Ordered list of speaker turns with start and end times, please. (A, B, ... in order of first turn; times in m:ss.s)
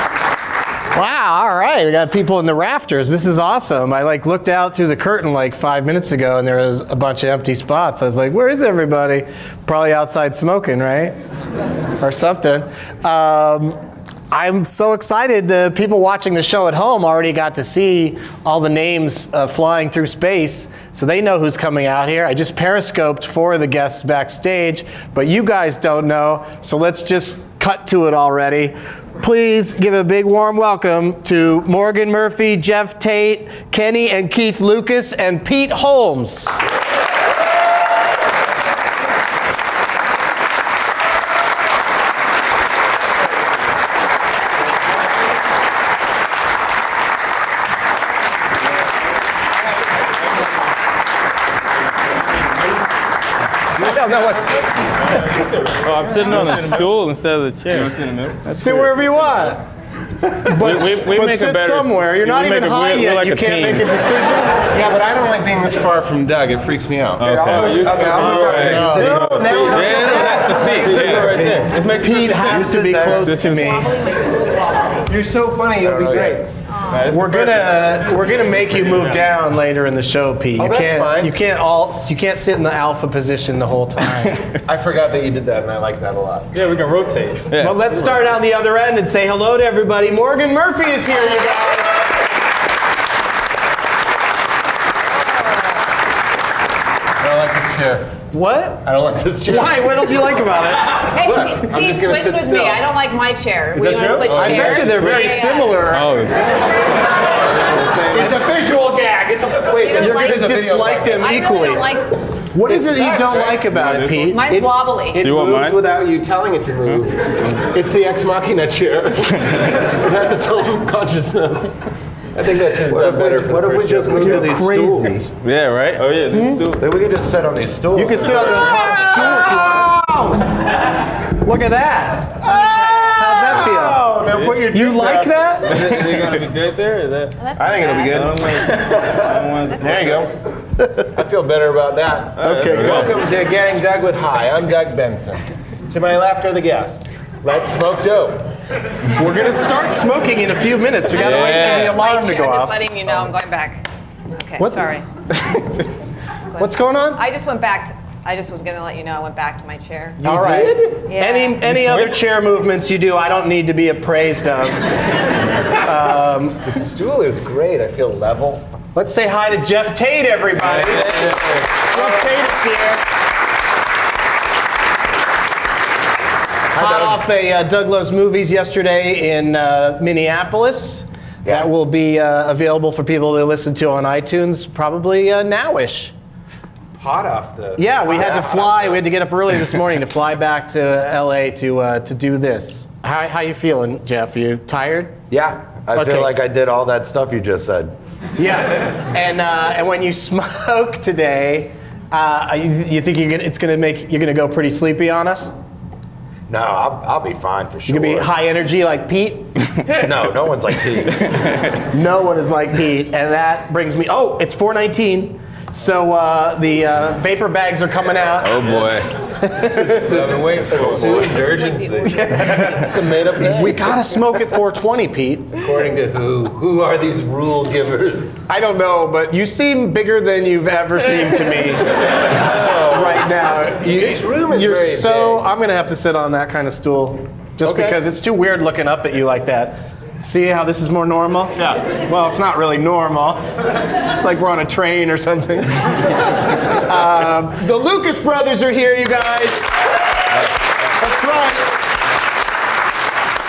0:00.9-0:11.2 A
0:12.0-0:13.8 A
0:14.3-0:36.5 A
0:53.7-0:55.2 A
0:55.0-0:59.0 B
0:56.1-0:56.8 A
0:58.4-0:59.6 A
1:00.2-1:04.6 A
1:00.5-1:03.9 B
1:04.7-1:11.6 C
1:07.2-1:13.9 B
1:07.4-1:11.7 D
1:08.1-1:09.3 A
1:11.7-1:13.9 A
1:12.4-1:13.4 D
1:13.3-1:15.1 E
1:15.0-1:16.5 C
1:15.8-1:16.2 D
1:15.9-1:16.4 A
1:16.7-1:17.2 E
1:16.9-1:18.3 B
1:17.0-1:24.4 A
1:20.6-1:21.3 C
1:24.6-1:26.7 C
1:26.5-1:27.8 B
1:27.6-1:32.2 A
1:35.2-1:35.6 E
1:37.2-1:38.3 C
1:38.3-1:38.8 A
1:38.8-1:40.1 C
1:39.4-1:41.1 A
1:40.9-1:42.8 C
1:41.0-1:45.8 E
1:43.7-1:45.1 C
1:43.8-1:46.2 A
1:45.9-1:46.8 B
1:47.1-1:51.3 C
1:48.1-1:48.5 A
1:49.8-1:52.2 E
1:49.8-1:51.9 A
1:52.5-1:54.4 A
1:52.6-1:53.7 C
1:53.6-1:54.4 B
1:54.3-1:55.3 E
1:54.5-2:01.8 C
1:55.2-1:55.9 B
2:02.3-2:04.8 C
2:02.8-2:05.2 D
2:04.1-2:05.3 A
2:05.4-2:06.8 B
2:06.3-2:06.7 A
2:06.8-2:08.9 D
2:07.9-2:10.0 A
2:08.6-2:10.4 C
2:11.2-2:16.0 A
2:12.4-2:15.5 C
2:14.3-2:14.6 B
2:15.6-2:17.4 B
2:17.4-2:18.4 E
2:17.6-2:20.4 C
2:17.9-2:20.3 B
2:19.6-2:20.2 E
2:21.0-2:28.5 C
2:22.4-2:23.1 B
2:22.4-2:23.2 A
2:29.1-2:32.9 A
2:31.1-2:32.0 B
2:31.1-2:35.1 E
2:34.6-2:34.9 A
2:36.5-2:40.2 E
2:36.6-2:37.2 A
2:40.2-2:45.0 A
2:40.2-2:41.0 C
2:41.1-2:41.6 E
2:41.8-2:42.1 B
2:45.7-2:46.8 A
2:46.6-2:48.7 C
2:48.9-2:53.0 A
2:50.8-2:51.7 B
2:56.7-3:06.1 A
2:56.7-2:57.2 D
3:07.0-3:08.9 C
3:07.8-3:15.2 A
3:15.3-3:17.9 D
3:15.9-3:16.3 A
3:18.4-3:25.5 A
3:26.5-3:28.3 D
3:27.8-3:29.5 A
3:30.0-3:31.3 D
3:31.9-3:38.8 A
3:38.4-3:39.1 B
3:39.6-3:43.9 C
3:39.6-3:39.9 A
3:40.0-3:41.4 B
3:40.9-3:42.6 E
3:42.3-3:45.6 A
3:45.6-3:48.5 C
3:48.5-4:09.8 A
3:52.1-3:53.3 C
3:53.8-3:55.4 C
3:57.6-3:58.0 C
4:10.3-4:11.7 A